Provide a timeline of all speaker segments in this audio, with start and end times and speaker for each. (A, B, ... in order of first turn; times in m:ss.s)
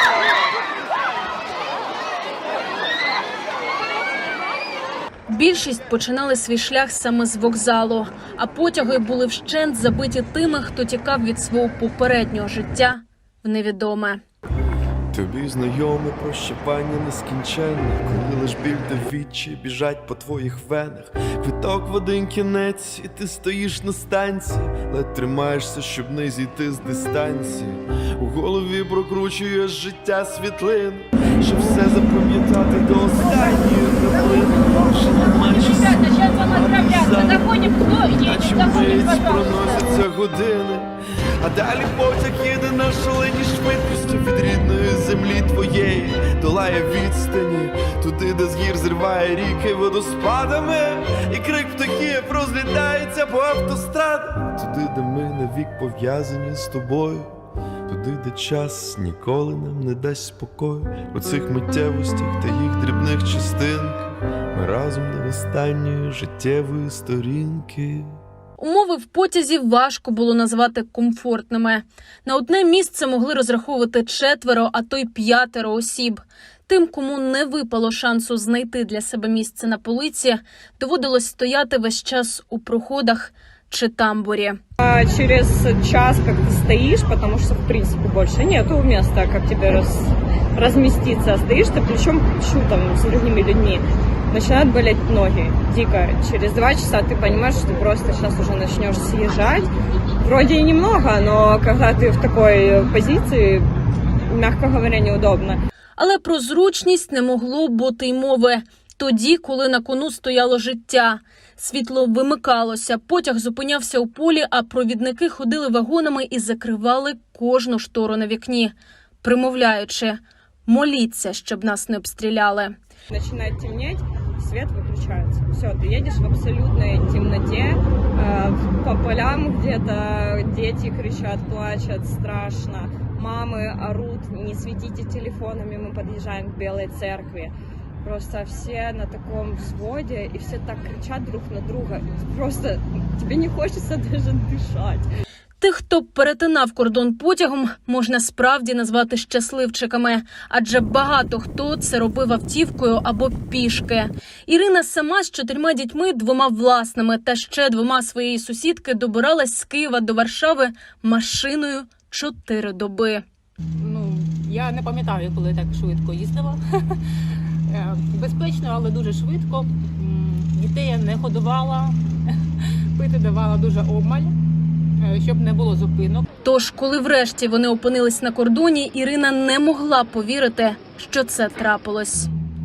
0:05.3-0:14.2 A
0:15.1-0:57.3 B
0:57.9-1:08.1 B
1:08.6-1:24.6 A
1:24.8-1:39.7 C
1:40.2-1:43.7 C
1:44.3-1:45.6 C
1:46.0-2:02.7 A
2:03.1-2:25.1 C
2:25.6-2:43.2 A
2:43.8-2:46.6 D
2:47.7-2:51.9 D
2:53.0-2:54.3 D
2:55.1-2:56.2 D
2:56.4-3:02.3 A